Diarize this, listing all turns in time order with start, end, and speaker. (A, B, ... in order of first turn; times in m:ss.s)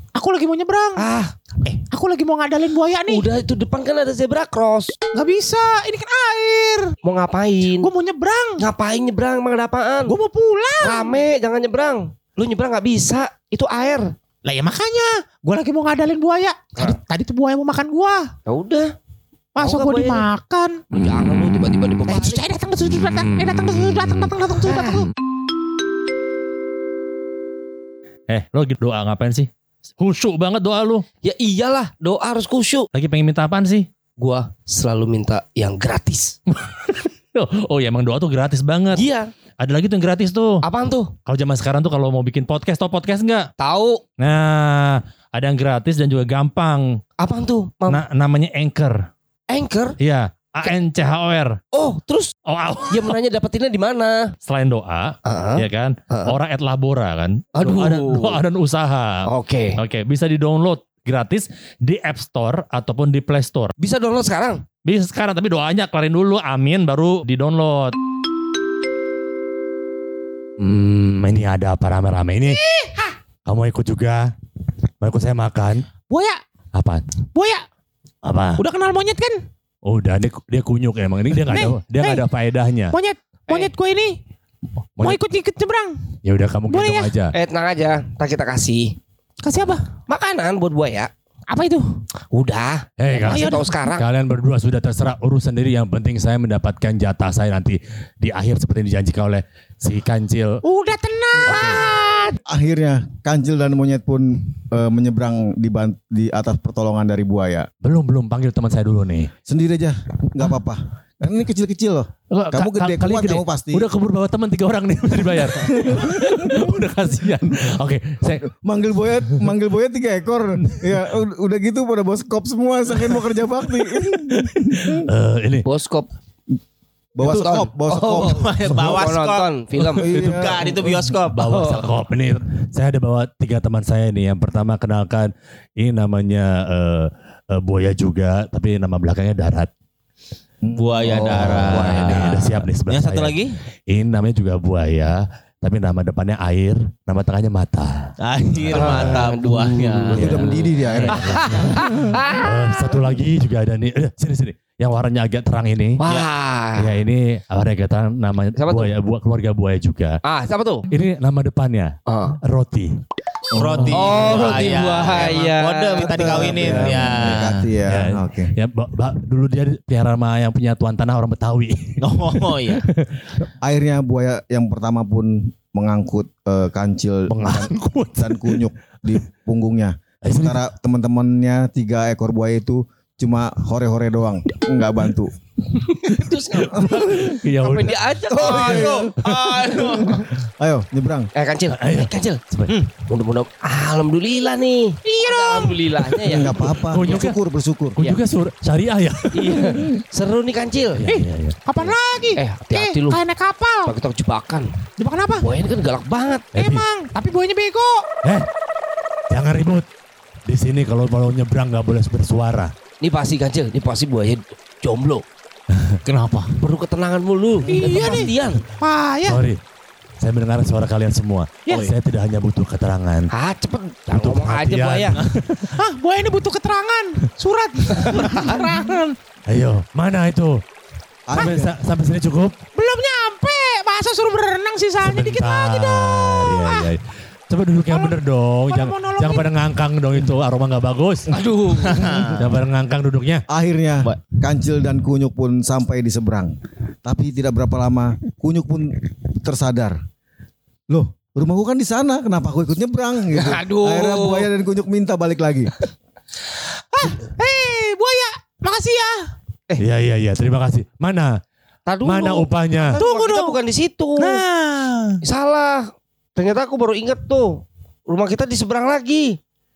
0:00.1-0:01.0 A
0:01.0-0:01.7 B
0:01.7-0:03.3 A
0:03.1-0:04.9 B
0:05.1-0:06.9 A
0:07.0-0:07.9 B
0:07.8-0:08.6 A
0:08.6-0:10.1 B
0:10.1-0:11.1 A
0:10.8-0:14.1 B
0:14.4-0:18.3 A
0:18.4-0:18.9 B
0:19.6-0:20.8 A
0:19.6-0:20.2 B
0:20.9-0:22.4 B
0:22.1-0:25.1 A
0:23.1-0:24.3 C
0:24.6-0:25.0 B
0:28.3-0:31.0 C
0:31.2-0:32.9 B
0:32.9-0:33.8 C
0:34.2-0:36.4 B
0:36.5-0:39.0 C
0:38.9-0:39.3 B
0:39.6-0:40.6 C
0:40.6-0:41.1 B
0:41.2-0:43.5 C
0:43.6-0:44.0 B
0:44.2-0:46.9 C
0:47.2-0:48.0 B
0:47.9-0:49.0 C
0:49.5-0:50.0 B
0:50.0-0:51.6 C
0:51.7-0:52.3 B
0:52.4-0:53.1 C
0:52.9-0:54.3 B
0:54.4-0:59.2 C
0:55.2-0:56.3 B
0:57.5-0:58.4 B
0:59.2-0:59.8 B
0:59.8-1:03.7 C
1:03.8-1:04.7 B
1:04.8-1:08.0 C
1:10.6-1:12.6 C
1:12.5-1:13.1 A
1:13.4-1:14.3 C
1:15.0-1:15.8 C
1:16.1-1:16.4 A
1:16.7-1:17.0 C
1:17.3-1:17.6 A
1:18.2-1:18.6 C
1:18.6-1:19.4 A
1:19.8-1:22.9 C
1:21.5-1:22.2 A
1:22.9-1:24.2 A
1:25.0-1:26.0 A
1:26.2-1:27.3 C
1:26.7-1:27.1 A
1:27.3-1:29.0 B
1:29.4-1:29.8 A
1:30.1-1:31.1 B
1:31.5-1:32.0 A
1:32.3-1:34.0 B
1:33.0-1:40.6 C
1:33.2-1:33.6 A
1:40.6-1:42.3 A
1:41.4-1:41.8 D
1:42.4-1:47.7 D
1:47.8-1:49.3 C
1:49.5-1:53.9 D
1:52.3-1:58.5 C
1:55.5-1:56.7 D
1:58.5-2:05.1 D
2:03.9-2:05.7 C
2:05.6-2:06.1 B
2:07.2-2:08.7 D
2:07.2-2:10.2 B
2:08.0-2:09.5 E
2:09.8-2:19.7 C
2:10.0-2:10.8 D
2:10.1-2:11.5 E
2:11.4-2:11.8 B
2:20.6-2:22.4 D
2:20.7-2:23.6 E
2:21.2-2:28.1 C
2:28.2-2:30.4 E
2:28.6-2:36.0 C
2:28.7-2:30.1 B
2:30.1-2:32.2 D
2:31.1-2:33.0 B
2:36.0-2:36.9 B
2:36.7-2:40.2 C
2:38.6-2:38.9 B
2:40.2-2:40.8 B
2:40.9-2:41.9 C
2:42.1-2:42.4 B
2:42.4-2:42.9 C
2:43.5-2:44.7 D
2:43.5-2:47.7 E
2:43.9-2:46.8 B
2:45.9-2:48.5 D
2:46.6-2:47.3 C
2:47.9-2:53.2 C
2:52.0-2:52.8 E
2:53.6-3:05.3 D
2:57.3-2:58.6 C
3:00.2-3:00.6 C
3:05.7-3:10.3 B
3:06.6-3:07.4 D
3:07.1-3:08.5 C
3:08.3-3:09.1 E
3:08.4-3:11.3 D
3:11.3-3:17.2 B
3:11.7-3:12.7 C
3:15.0-3:15.8 A
3:16.2-3:18.0 D
3:16.9-3:17.4 C
3:18.0-3:19.8 C
3:19.3-3:21.0 B
3:19.5-3:20.0 D
3:21.0-3:21.6 C
3:21.1-3:23.9 A
3:21.8-3:23.2 B
3:23.8-3:24.7 B
3:25.0-3:25.5 A
3:25.4-3:26.5 B
3:26.5-3:26.8 C
3:26.5-3:28.0 A
3:29.3-3:29.8 C
3:30.5-3:32.7 C
3:33.0-3:35.2 B
3:36.0-3:36.6 E
3:36.6-3:38.6 B
3:37.7-3:39.4 A
3:39.2-3:39.6 C
3:40.2-3:43.3 C
3:43.3-3:45.2 B
3:44.1-3:45.7 C
3:45.7-3:49.1 A
3:49.5-3:50.6 C
3:51.3-3:51.7 D
3:51.3-3:52.5 C
3:52.7-3:56.9 A
3:55.0-4:01.3 C
3:57.9-3:58.1 A
3:58.7-3:59.5 A
4:01.3-4:02.3 B
4:01.7-4:02.4 E
4:01.9-4:02.4 D
4:02.3-4:03.4 C
4:03.5-4:10.0 D
4:10.9-4:15.7 D
4:13.3-4:14.5 B
4:16.9-4:19.2 A
4:19.8-4:21.3 C
4:21.9-4:24.4 B
4:22.0-4:23.0 C
4:23.0-4:23.6 A
4:24.2-4:25.2 A
4:25.2-4:29.4 B